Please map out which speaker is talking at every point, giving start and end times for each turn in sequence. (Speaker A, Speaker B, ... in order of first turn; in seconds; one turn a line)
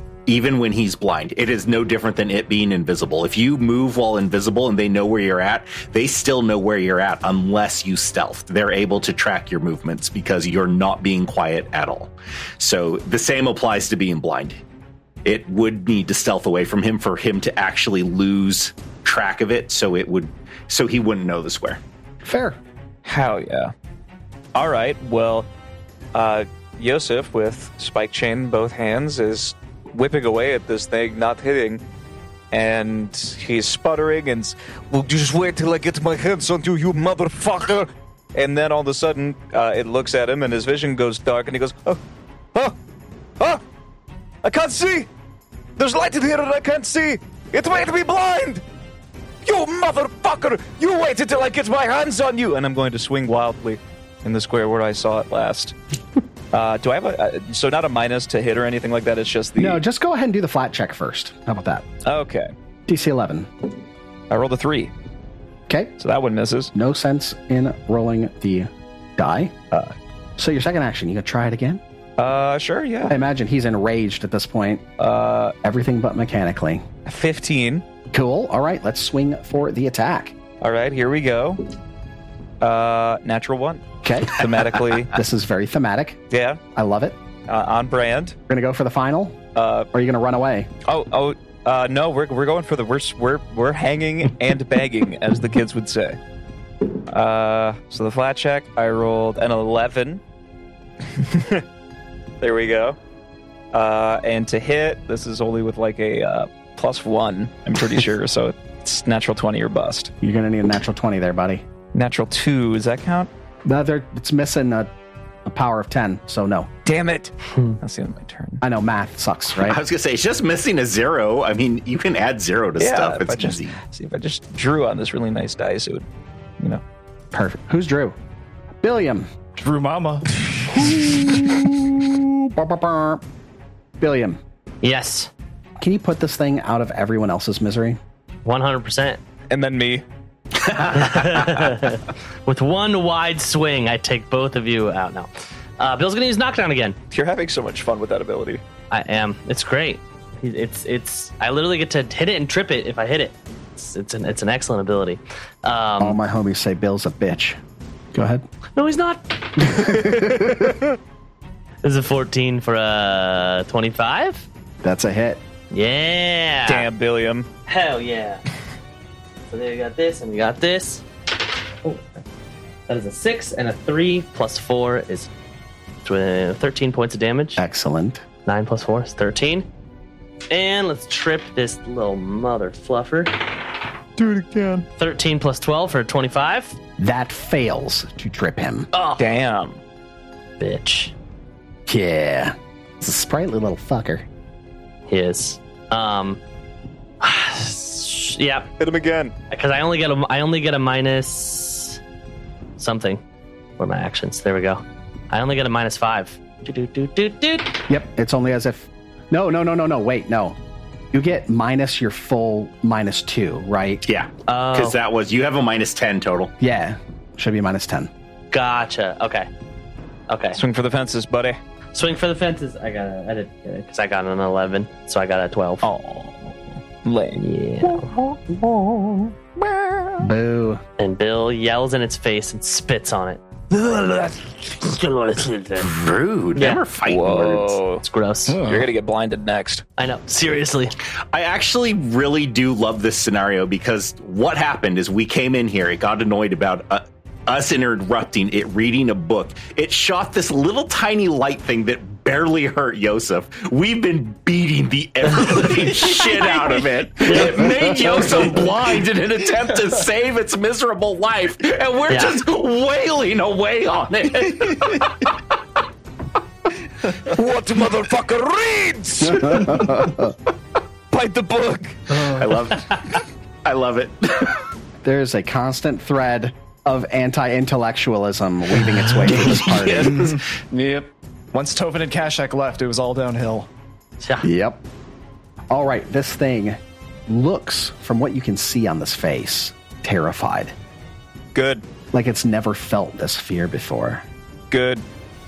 Speaker A: 0.3-14.6
Speaker A: 15.2-21.8
Speaker B: 22.2-22.6
Speaker C: 23.0-23.7
Speaker C: 24.5-25.5
Speaker C: 26.1-31.8
Speaker C: 32.5-42.0
Speaker C: 44.4-45.1
Speaker C: 45.8-48.6
Speaker C: 49.4-55.8
Speaker C: 56.5-59.8
Speaker B: 59.6-61.9
Speaker C: 62.0-62.5
Speaker B: 62.9-63.5
Speaker C: 64.3-64.9
Speaker C: 66.0-66.7
Speaker B: 66.7-69.5
Speaker B: 70.4-71.8
Speaker C: 72.2-73.2
Speaker B: 73.0-74.8
Speaker C: 75.0-75.5
Speaker B: 75.6-76.9
Speaker C: 77.0-77.8
Speaker B: 78.1-80.3
Speaker C: 80.6-81.7
Speaker C: 82.6-85.2
Speaker B: 84.0-84.4
Speaker B: 85.1-86.2
Speaker C: 86.3-86.6
Speaker B: 86.7-87.2
Speaker C: 87.5-88.3
Speaker B: 88.5-89.4
Speaker C: 89.5-89.9
Speaker B: 89.9-90.7
Speaker C: 90.8-96.2
Speaker C: 97.1-100.2
Speaker C: 101.1-101.6
Speaker C: 102.4-103.0
Speaker C: 103.7-110.1
Speaker B: 110.2-111.6
Speaker C: 111.9-113.3
Speaker B: 113.6-114.9
Speaker B: 115.4-116.7
Speaker C: 116.8-118.6
Speaker B: 118.6-119.8
Speaker A: 119.6-123.8
Speaker C: 122.8-126.0
Speaker B: 127.3-128.2
Speaker B: 128.8-129.3
Speaker D: 129.6-130.9
Speaker C: 130.9-131.4
Speaker B: 130.9-133.2
Speaker B: 134.0-134.4
Speaker E: 134.8-135.3
Speaker B: 135.8-138.0
Speaker E: 138.4-139.2
Speaker C: 139.5-140.0
Speaker A: 140.6-141.3
Speaker E: 140.9-147.0
Speaker C: 147.1-148.6
Speaker E: 148.9-156.2
Speaker B: 156.0-157.6
Speaker B: 158.1-158.4
Speaker E: 158.8-159.9
Speaker B: 159.9-160.5
Speaker E: 161.8-164.5
Speaker B: 164.8-165.4
Speaker E: 165.7-166.9
Speaker C: 166.7-167.5
Speaker E: 167.7-168.4
Speaker E: 169.5-171.0
Speaker E: 171.8-172.2
Speaker E: 172.9-175.3
Speaker E: 176.0-177.6
Speaker B: 177.6-178.2
Speaker E: 178.4-179.7
Speaker E: 180.5-183.5
Speaker C: 184.2-184.8
Speaker E: 185.0-186.8
Speaker B: 187.0-188.9
Speaker E: 188.9-189.2
Speaker C: 189.2-189.8
Speaker E: 190.6-191.1
Speaker B: 191.9-194.2
Speaker E: 195.1-196.4
Speaker E: 197.2-198.7
Speaker C: 198.8-199.3
Speaker E: 199.5-202.0
Speaker E: 202.8-203.2
Speaker E: 203.8-207.8
Speaker B: 207.9-210.6
Speaker B: 211.1-214.0
Speaker A: 214.0-216.5
Speaker E: 214.5-215.0
Speaker B: 216.6-218.1
Speaker E: 218.5-219.5
Speaker E: 220.3-220.6
Speaker C: 220.6-221.6
Speaker E: 221.9-225.9
Speaker C: 225.8-230.3
Speaker E: 227.4-228.1
Speaker B: 230.2-230.8
Speaker E: 231.0-233.4
Speaker C: 233.7-235.7
Speaker A: 235.8-237.8
Speaker E: 236.6-236.8
Speaker C: 237.0-238.0
Speaker E: 238.0-238.6
Speaker D: 238.5-238.9
Speaker C: 238.6-239.8
Speaker E: 240.0-240.9
Speaker A: 241.3-265.3
Speaker E: 257.2-257.6
Speaker C: 257.9-258.7
Speaker E: 262.1-262.4
Speaker C: 267.2-270.1
Speaker B: 269.2-270.3
Speaker C: 271.1-272.7
Speaker A: 272.3-274.6
Speaker B: 275.0-280.4
Speaker D: 280.0-283.7
Speaker E: 284.2-284.4
Speaker B: 284.4-284.8
Speaker B: 285.7-290.7
Speaker C: 291.5-291.8
Speaker B: 292.1-294.2
Speaker C: 294.7-295.0